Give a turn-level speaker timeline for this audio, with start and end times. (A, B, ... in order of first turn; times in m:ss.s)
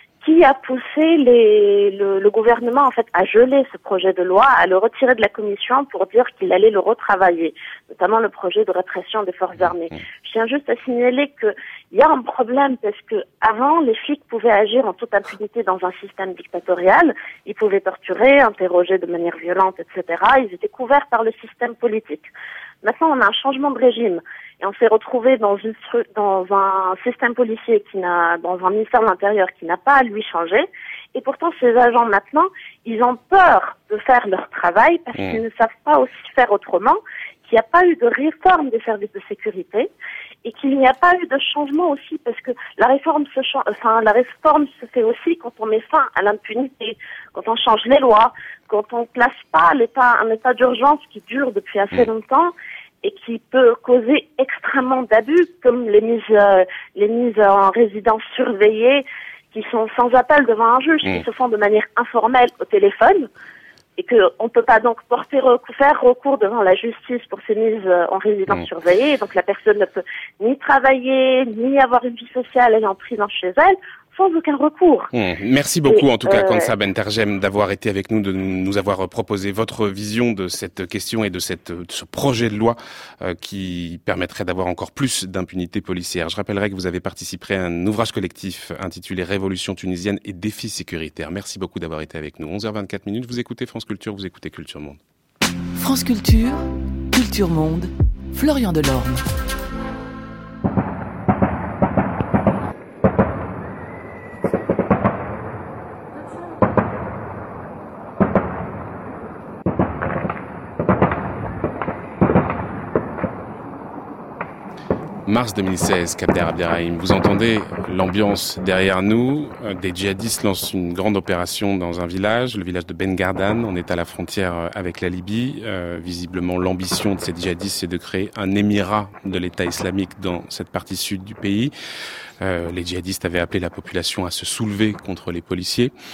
0:00.2-0:22.3 A
0:22.8-0:39.9 A
0:35.1-0:35.4 B
0:40.4-1:03.3 A
1:04.0-1:15.1 A
1:15.1-1:35.0 B
1:15.9-1:16.7 A
1:35.8-1:39.2 C
1:55.2-2:11.7 B
2:12.4-2:15.9 B